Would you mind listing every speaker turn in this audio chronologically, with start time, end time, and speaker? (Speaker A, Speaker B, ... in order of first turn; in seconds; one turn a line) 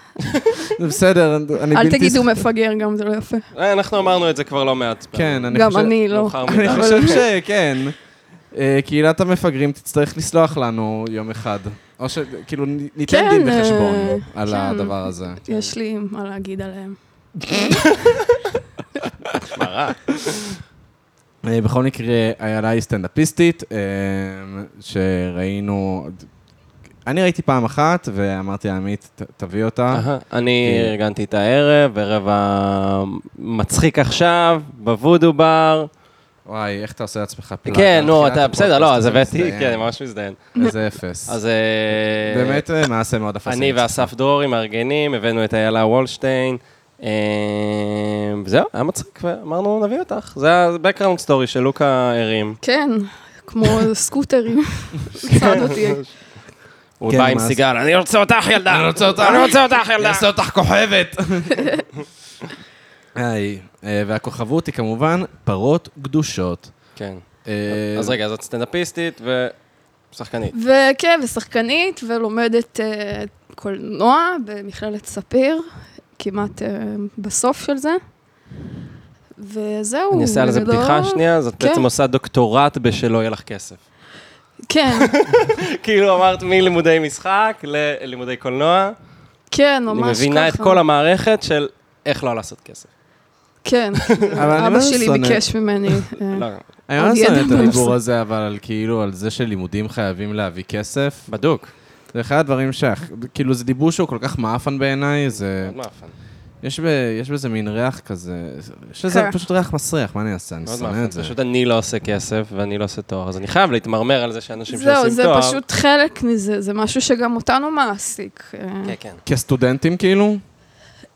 Speaker A: 0.3-0.6
Speaker B: 0.6-2.5
Speaker C: 1.7-3.5
Speaker A: 3.5-7.2
Speaker B: 5.1-8.0
Speaker C: 5.5-7.2
Speaker B: 8.5-15.4
Speaker C: 13.1-17.9
Speaker A: 17.9-18.2
Speaker A: 19.5-20.2
Speaker B: 21.4-26.3
Speaker B: 27.1-30.1
Speaker A: 29.9-35.9
Speaker B: 30.6-30.9
Speaker B: 36.5-39.9
Speaker A: 37.7-40.5
Speaker B: 40.6-41.4
Speaker A: 41.3-42.6
Speaker B: 42.3-44.1
Speaker A: 43.5-52.6
Speaker C: 52.6-56.0
Speaker A: 55.3-56.1
Speaker A: 57.0-60.3
Speaker B: 57.1-57.6
Speaker B: 58.7-61.7
Speaker B: 63.2-66.7
Speaker A: 67.0-69.5
Speaker B: 67.5-68.2
Speaker A: 70.1-70.5
Speaker C: 70.5-75.7
Speaker C: 76.2-78.0
Speaker C: 79.4-81.9
Speaker A: 80.1-83.8
Speaker C: 84.7-85.1
Speaker A: 85.0-89.0
Speaker C: 89.5-90.8
Speaker A: 89.9-92.9
Speaker C: 93.6-96.5
Speaker A: 94.1-94.4
Speaker B: 94.3-95.4
Speaker A: 96.3-96.6
Speaker B: 96.9-101.3
Speaker C: 97.0-98.0
Speaker A: 101.3-101.7
Speaker B: 102.1-105.8
Speaker A: 105.5-106.1
Speaker B: 106.6-111.3
Speaker C: 109.1-109.3
Speaker A: 110.7-115.6
Speaker C: 114.7-119.0
Speaker A: 118.8-119.2
Speaker B: 119.2-120.4